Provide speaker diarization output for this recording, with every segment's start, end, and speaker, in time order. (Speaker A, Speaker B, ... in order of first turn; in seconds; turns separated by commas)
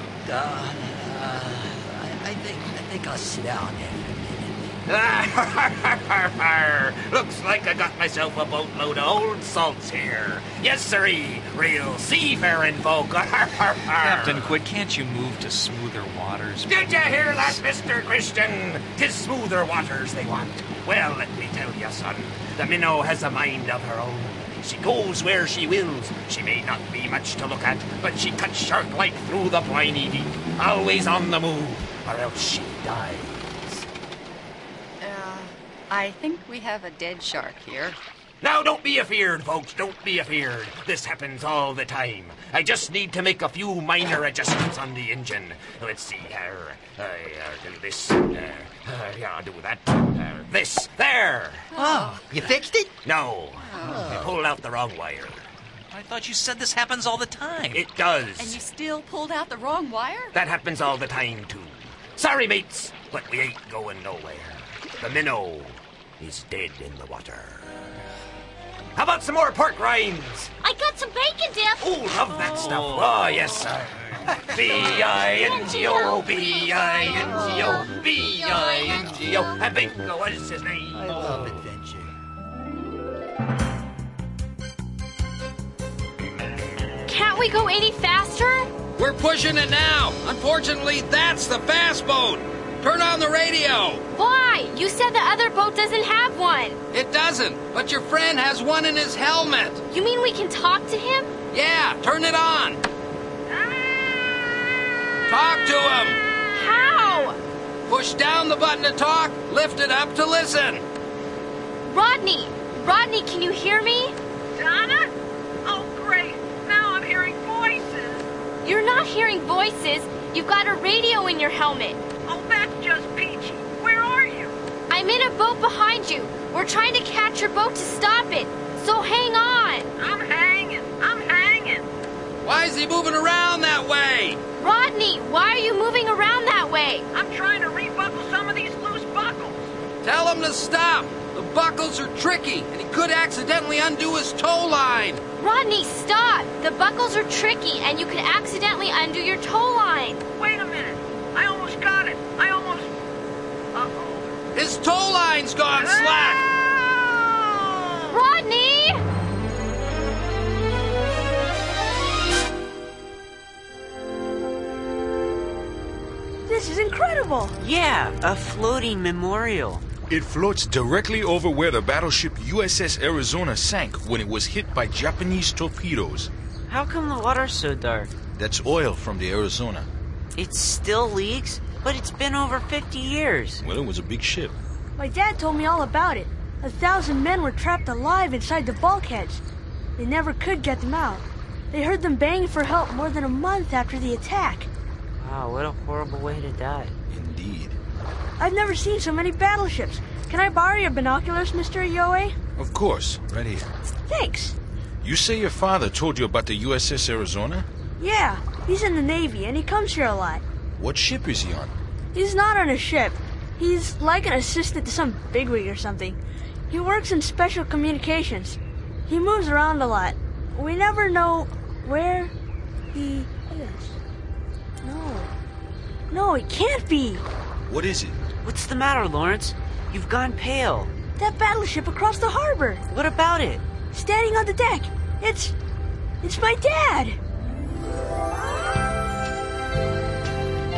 Speaker A: 0.2-4.7, Speaker B: 4.9-14.6, Speaker C: 14.0-17.6, Speaker B: 16.6-33.9, Speaker D: 35.0-38.0, Speaker B: 38.4-51.7, Speaker D: 51.7-52.2, Speaker A: 51.8-53.0, Speaker B: 53.0-55.5, Speaker D: 53.6-54.1, Speaker A: 53.8-54.4, Speaker C: 55.9-57.8, Speaker B: 57.7-58.6, Speaker D: 58.4-60.4, Speaker B: 60.4-67.8, Speaker B: 69.0-70.5, Speaker E: 70.6-72.0, Speaker B: 71.8-81.5, Speaker E: 74.7-79.5, Speaker A: 77.3-77.7, Speaker A: 79.1-79.4, Speaker A: 80.9-82.1, Speaker F: 87.1-88.7, Speaker G: 89.0-94.0, Speaker F: 94.1-96.8, Speaker G: 96.9-99.8, Speaker F: 99.9-101.3, Speaker G: 101.5-102.8, Speaker H: 103.6-104.2, Speaker G: 105.3-106.2, Speaker F: 106.5-107.4, Speaker G: 107.9-110.8, Speaker F: 111.9-114.2, Speaker F: 118.6-122.0, Speaker F: 124.9-129.9, Speaker G: 132.4-134.4, Speaker F: 134.6-137.1, Speaker G: 140.0-145.2, Speaker F: 145.4-150.2, Speaker H: 151.4-152.9, Speaker H: 153.9-154.2, Speaker G: 154.5-156.4, Speaker F: 158.1-159.0, Speaker I: 166.5-167.6, Speaker J: 167.6-169.8, Speaker K: 170.1-176.3, Speaker J: 176.7-178.1, Speaker K: 178.4-179.9, Speaker J: 180.3-183.6, Speaker K: 183.6-184.6, Speaker I: 185.0-189.4, Speaker I: 190.0-194.7, Speaker J: 195.2-196.9, Speaker K: 197.1-197.8, Speaker I: 198.4-202.4, Speaker K: 202.6-203.7, Speaker I: 204.0-204.6, Speaker K: 205.0-207.7, Speaker I: 208.0-210.4, Speaker K: 210.8-211.7, Speaker I: 212.2-216.2, Speaker I: 216.7-218.6, Speaker I: 219.1-222.3, Speaker I: 222.9-223.9, Speaker I: 224.8-225.3, Speaker I: 226.1-227.2, Speaker K: 227.7-228.2, Speaker J: 228.4-230.9, Speaker I: 231.2-232.8, Speaker J: 232.9-233.6, Speaker I: 233.9-235.6, Speaker I: 236.2-237.2